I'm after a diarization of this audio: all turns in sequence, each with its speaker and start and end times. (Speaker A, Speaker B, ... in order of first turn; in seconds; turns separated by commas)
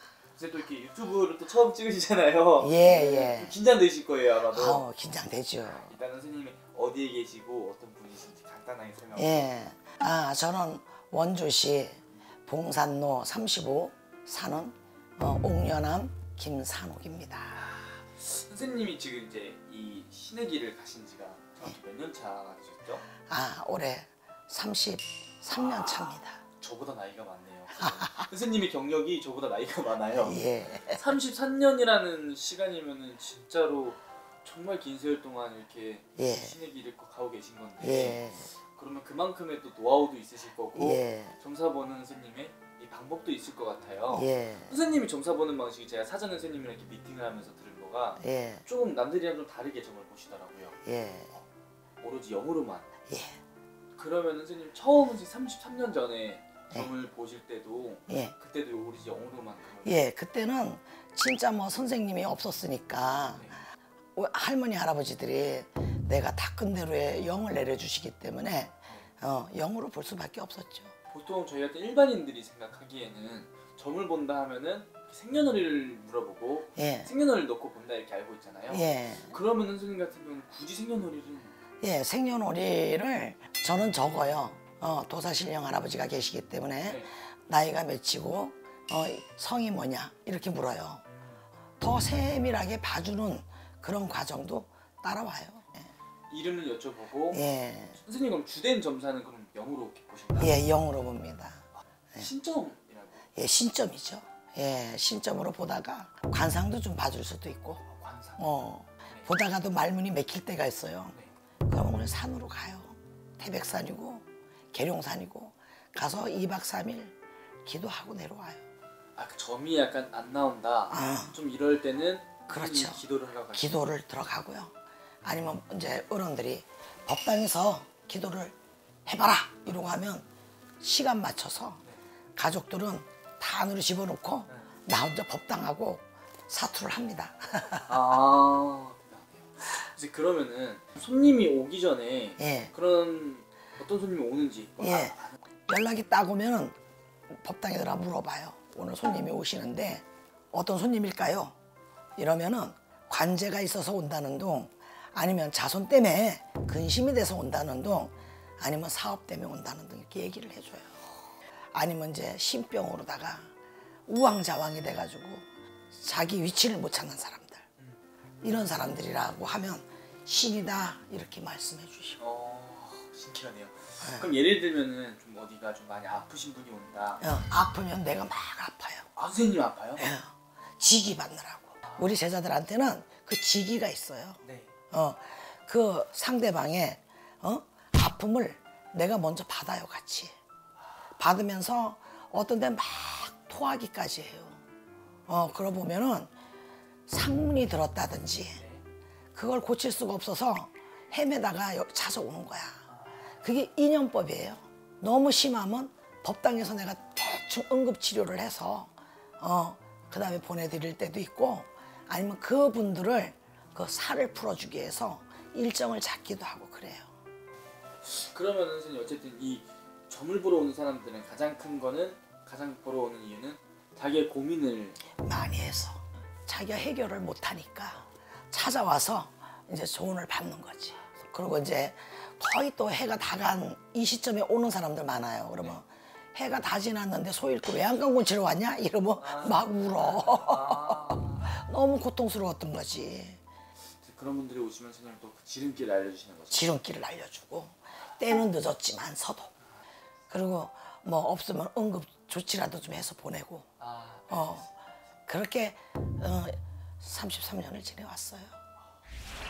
Speaker A: 0.3-4.8, Speaker B: 2.6-3.5, Speaker B: 4.5-6.0, Speaker A: 5.8-9.6, Speaker B: 9.2-17.7, Speaker A: 17.5-23.1, Speaker B: 23.1-26.4, Speaker A: 25.6-50.8, Speaker B: 27.8-28.3, Speaker B: 30.2-31.1, Speaker B: 36.2-36.5, Speaker B: 37.8-38.5, Speaker B: 40.7-41.4, Speaker B: 44.1-44.8, Speaker B: 48.2-48.6, Speaker B: 50.8-51.4, Speaker A: 52.0-52.9, Speaker B: 53.1-53.4, Speaker A: 54.0-60.0, Speaker B: 58.1-58.4, Speaker B: 59.8-63.6, Speaker A: 63.4-63.6, Speaker B: 64.2-70.9, Speaker A: 71.1-81.6, Speaker B: 76.8-77.1, Speaker B: 78.7-79.3, Speaker B: 81.8-91.0, Speaker A: 86.8-87.1, Speaker A: 91.1-91.4, Speaker B: 91.8-95.9, Speaker A: 96.3-97.4, Speaker B: 97.3-98.0, Speaker A: 98.0-100.6, Speaker B: 100.4-102.3, Speaker A: 102.2-103.3, Speaker B: 103.3-118.6, Speaker A: 107.9-109.3, Speaker A: 119.2-123.9, Speaker B: 120.9-121.4, Speaker B: 122.5-130.3, Speaker B: 130.8-131.8, Speaker B: 132.4-137.9, Speaker A: 137.9-145.3, Speaker B: 142.4-142.7, Speaker B: 144.8-145.2, Speaker B: 145.7-146.8, Speaker B: 147.3-151.6, Speaker B: 152.2-161.0, Speaker B: 161.7-163.5, Speaker B: 164.1-167.7, Speaker B: 168.4-172.2, Speaker A: 172.2-177.2, Speaker B: 174.0-174.3, Speaker B: 177.2-179.1, Speaker A: 179.2-180.1, Speaker B: 180.0-190.3, Speaker A: 184.4-184.7, Speaker B: 191.2-194.6, Speaker B: 195.3-196.3, Speaker B: 197.1-198.6, Speaker A: 198.6-198.8, Speaker B: 199.3-202.8, Speaker A: 202.9-203.2, Speaker B: 203.4-217.1, Speaker A: 218.0-225.1, Speaker B: 225.1-243.4, Speaker A: 239.2-241.5, Speaker A: 244.0-246.8, Speaker B: 246.5-249.5, Speaker B: 250.3-253.7, Speaker A: 253.8-254.7, Speaker B: 254.3-254.7, Speaker B: 255.3-258.6